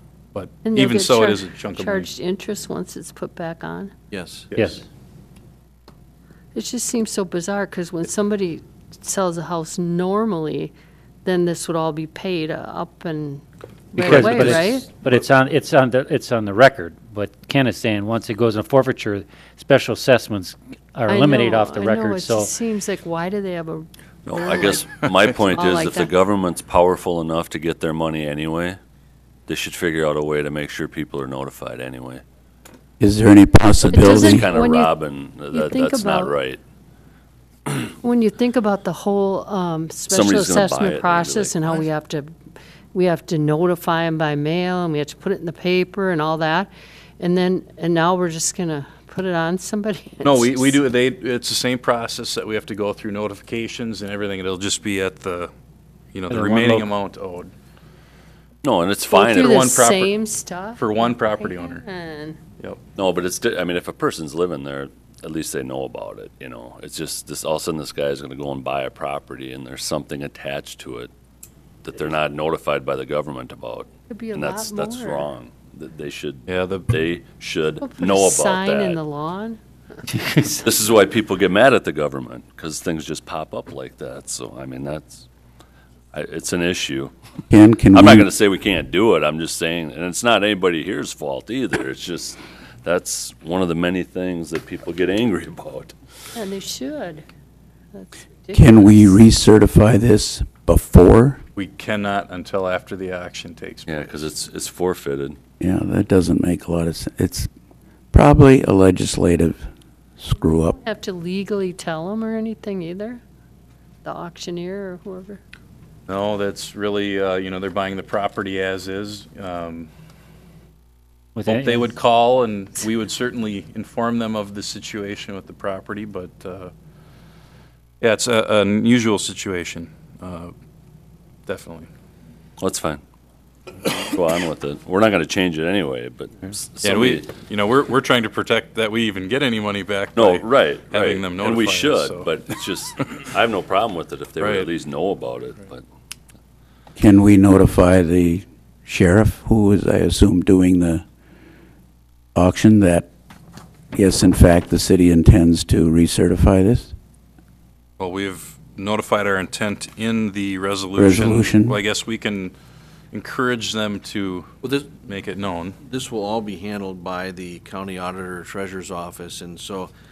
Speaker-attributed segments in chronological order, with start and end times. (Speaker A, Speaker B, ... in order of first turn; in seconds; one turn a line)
Speaker A: 0.3-2.1
Speaker B: 0.6-3.9
Speaker C: 4.1-4.5
Speaker D: 4.5-4.8
Speaker B: 6.5-10.7
Speaker B: 11.2-14.8
Speaker D: 14.0-22.5
Speaker B: 21.1-26.1
Speaker E: 24.2-28.8
Speaker E: 29.5-32.2
Speaker F: 33.0-34.5
Speaker B: 33.9-36.4
Speaker E: 33.9-36.6
Speaker B: 38.0-42.3
Speaker E: 40.1-41.7
Speaker B: 42.9-50.8
Speaker A: 50.2-55.5
Speaker A: 56.1-57.5
Speaker D: 56.3-56.9
Speaker E: 58.6-59.6
Speaker B: 59.1-62.4
Speaker A: 59.5-60.1
Speaker A: 60.8-61.8
Speaker E: 63.0-71.1
Speaker E: 71.8-79.0
Speaker B: 74.1-75.3
Speaker A: 76.5-76.9
Speaker B: 77.8-80.7
Speaker E: 80.6-85.2
Speaker E: 86.1-87.1
Speaker F: 87.5-88.3
Speaker E: 87.9-95.9
Speaker B: 96.3-97.3
Speaker B: 97.9-99.2
Speaker F: 98.5-101.4
Speaker A: 101.5-104.2
Speaker E: 103.9-105.4
Speaker F: 105.6-107.5
Speaker F: 108.1-109.7
Speaker F: 110.2-110.8
Speaker B: 110.7-113.2
Speaker B: 114.0-115.4
Speaker A: 116.1-119.9
Speaker D: 121.3-122.0
Speaker A: 121.5-126.7
Speaker A: 128.0-130.5
Speaker A: 131.5-131.9
Speaker E: 132.6-133.0
Speaker E: 133.8-137.3
Speaker A: 136.8-142.4
Speaker E: 140.1-145.8
Speaker A: 144.4-144.7
Speaker F: 146.9-151.0
Speaker F: 152.3-153.1
Speaker F: 153.9-156.9
Speaker A: 158.0-162.6
Speaker F: 161.0-161.8
Speaker A: 163.1-165.8
Speaker C: 164.6-164.9
Speaker C: 165.8-169.9